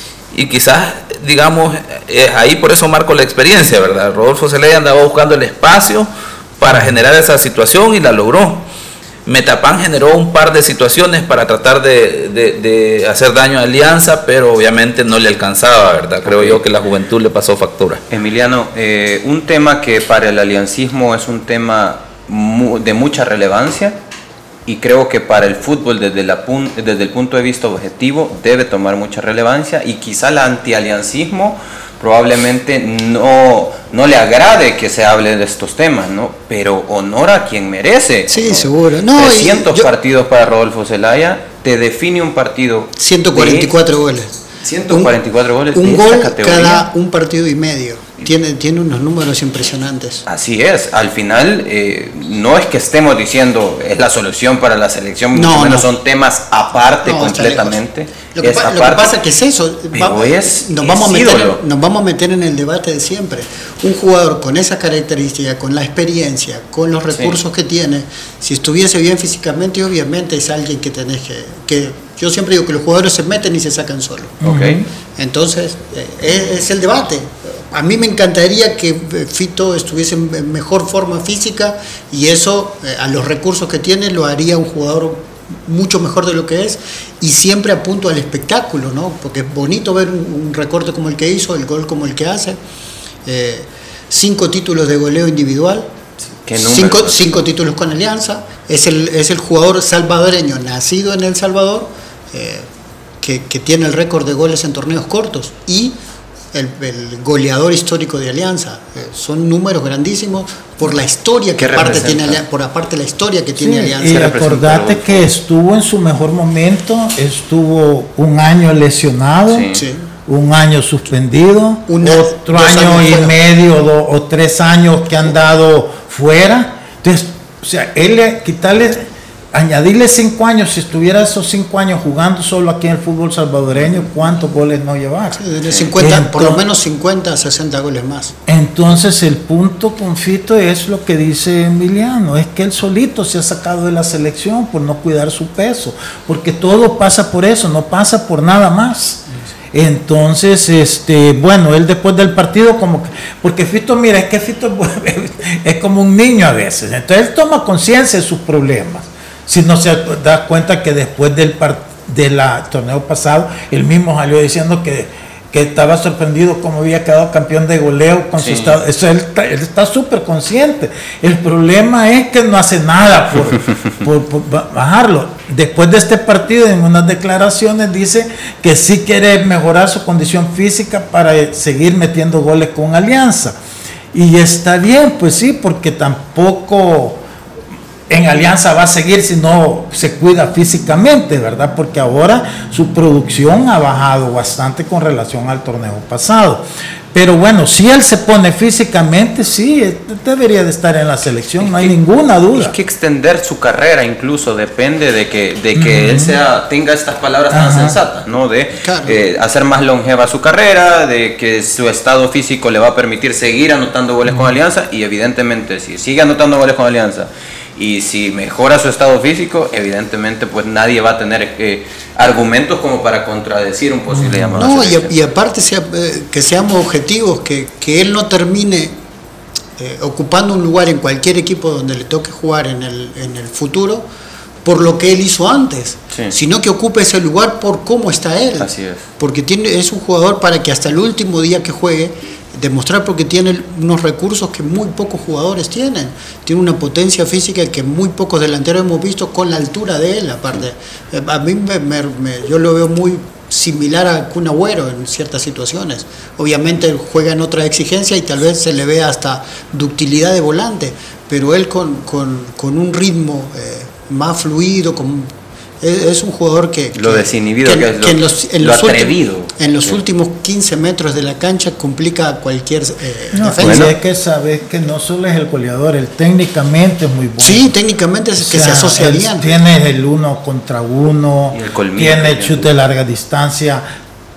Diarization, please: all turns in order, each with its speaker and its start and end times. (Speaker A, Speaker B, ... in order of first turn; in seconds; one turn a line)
Speaker A: 0.3-8.7
Speaker B: 6.7-6.9
Speaker A: 9.2-18.0
Speaker C: 16.2-16.6
Speaker C: 18.1-24.0
Speaker C: 24.6-43.8
Speaker D: 38.3-39.9
Speaker D: 43.0-45.1
Speaker C: 44.6-46.9
Speaker D: 45.7-50.2
Speaker C: 50.3-59.1
Speaker D: 55.3-55.9
Speaker D: 57.0-74.4
Speaker C: 59.9-61.6
Speaker C: 67.1-67.4
Speaker C: 74.4-74.8
Speaker B: 74.4-74.8
Speaker D: 75.2-92.6
Speaker D: 93.2-95.9
Speaker C: 96.3-97.4
Speaker D: 96.6-102.7
Speaker D: 103.2-106.0
Speaker D: 106.5-114.2
Speaker C: 111.5-112.4
Speaker B: 113.6-119.7
Speaker C: 114.0-115.3
Speaker C: 119.5-119.8
Speaker D: 119.7-120.1
Speaker B: 120.2-135.4
Speaker D: 121.9-123.3
Speaker D: 135.3-138.3
Speaker B: 136.0-136.6
Speaker B: 138.5-183.6
Speaker C: 168.4-168.8
Speaker B: 184.1-187.2
Speaker B: 188.1-202.7
Speaker C: 201.6-201.9
Speaker C: 202.5-225.2
Speaker B: 205.8-206.3
Speaker B: 207.5-208.0
Speaker D: 208.8-209.2
Speaker B: 224.1-224.6
Speaker D: 224.6-229.0
Speaker D: 229.8-234.0
Speaker D: 234.6-273.9
Speaker C: 238.6-239.0
Speaker C: 266.9-270.0
Speaker B: 273.3-277.7
Speaker C: 273.6-273.9
Speaker D: 277.4-279.5
Speaker B: 278.4-283.8
Speaker C: 281.5-282.7